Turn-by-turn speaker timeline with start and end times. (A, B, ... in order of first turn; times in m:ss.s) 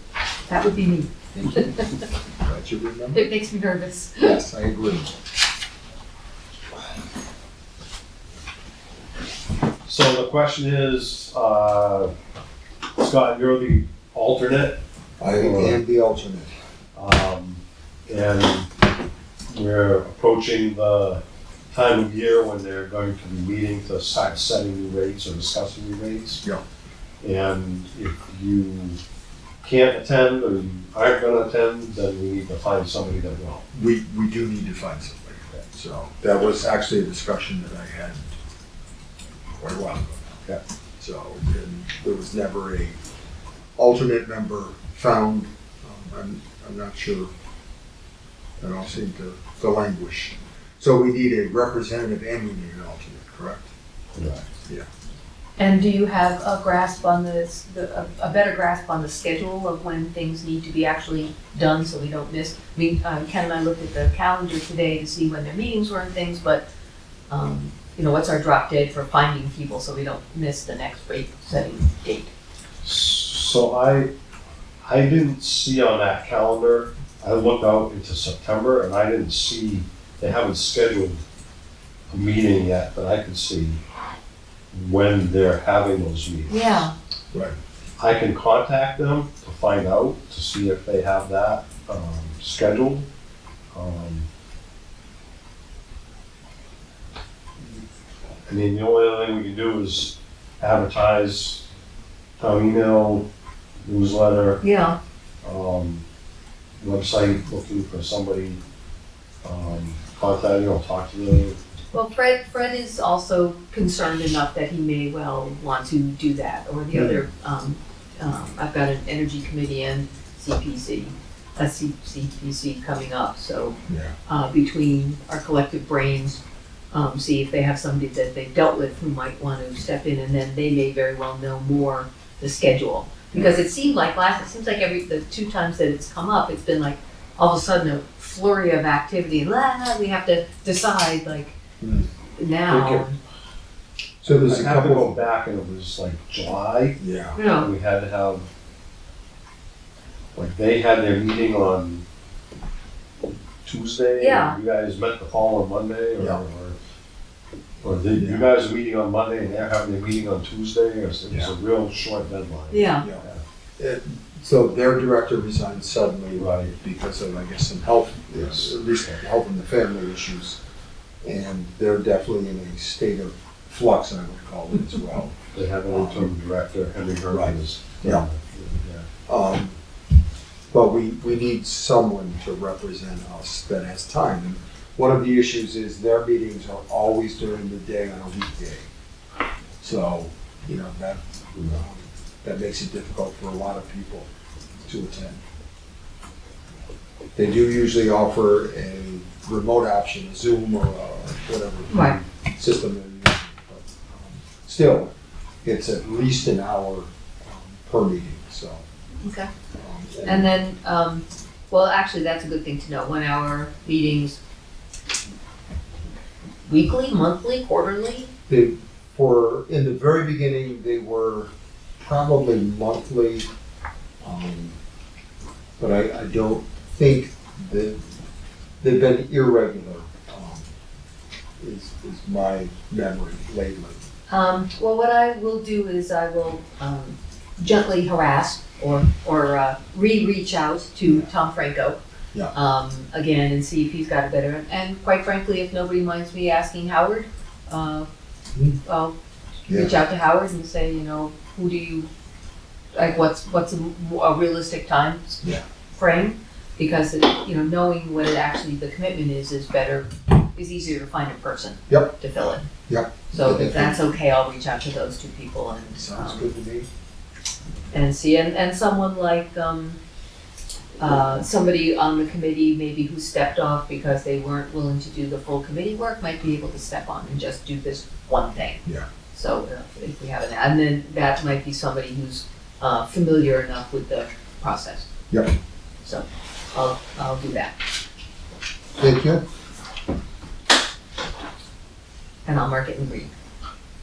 0:00.5-0:02.0 A
0:01.3-0:01.8 B
0:02.4-0:03.3 B
0:03.1-0:04.4 A
0:04.2-0:05.1 B
0:09.8-0:12.1 C
0:13.0-0:14.8 C
0:15.2-0:16.5 B
0:15.3-0:15.8 C
0:16.9-0:18.7 C
0:19.5-0:26.4 C
0:27.2-0:29.0 C
0:29.6-0:33.6 C
0:33.7-0:38.3 B
0:39.6-0:40.4 B
0:41.0-0:43.0 B
0:43.8-0:47.3 B
0:48.6-0:53.7 B
0:54.1-0:54.5 C
0:55.6-1:06.6 A
1:07.3-1:12.3 A
1:12.8-1:14.1 C
1:14.8-1:21.2 C
1:22.1-1:23.8 C
1:24.7-1:26.8 C
1:26.5-1:26.9 A
1:28.0-1:33.1 C
1:33.7-1:34.3 C
1:38.4-1:41.7 C
1:42.4-1:43.3 C
1:43.8-1:44.6 C
1:44.6-1:45.0 A
1:45.4-1:46.0 C
1:46.8-1:48.6 C
1:49.4-1:51.6 C
1:51.9-2:06.4 A
1:56.9-1:57.2 B
2:03.9-2:04.1 B
2:06.9-2:21.6 A
2:21.8-2:22.1 B
2:22.4-2:23.2 A
2:22.7-2:23.0 B
2:24.2-2:28.5 C
2:24.2-2:25.2 B
2:27.0-2:27.4 B
2:27.3-2:27.7 A
2:30.3-2:32.0 C
2:33.6-2:36.8 C
2:34.2-2:34.6 A
2:37.8-2:43.4 C
2:38.1-2:38.4 B
2:42.7-2:43.1 A
2:43.8-2:50.6 B
2:46.4-2:46.7 C
2:48.3-2:48.9 C
2:51.2-2:56.3 B
2:55.5-2:59.1 C
2:57.3-2:58.2 B
2:59.3-2:59.8 B
3:00.7-3:08.9 B
3:09.8-3:14.3 B
3:14.8-3:15.4 B
3:17.4-3:21.9 B
3:21.9-3:22.2 A
3:22.4-3:25.1 B
3:25.6-3:28.8 B
3:29.2-3:29.5 A
3:29.7-3:30.5 B
3:30.2-3:34.4 A
3:36.7-3:38.3 A
3:38.5-3:43.5 B
3:44.2-3:44.8 B
3:45.8-3:48.0 B
3:48.8-3:50.7 B
3:51.6-3:54.0 B
3:54.3-4:02.0 A
4:02.5-4:08.1 A
4:08.8-4:09.2 A
4:09.7-4:10.0 B
4:09.7-4:12.1 A
4:12.9-4:15.4 A
4:15.9-4:22.7 A
4:21.9-4:22.1 B
4:22.9-4:24.0 B
4:23.3-4:26.4 A
4:25.9-4:26.9 B
4:27.9-4:30.0 A
4:31.0-4:45.1 A
4:45.3-4:45.5 B
4:46.0-4:47.7 A
4:49.0-4:49.4 B
4:52.4-4:53.3 A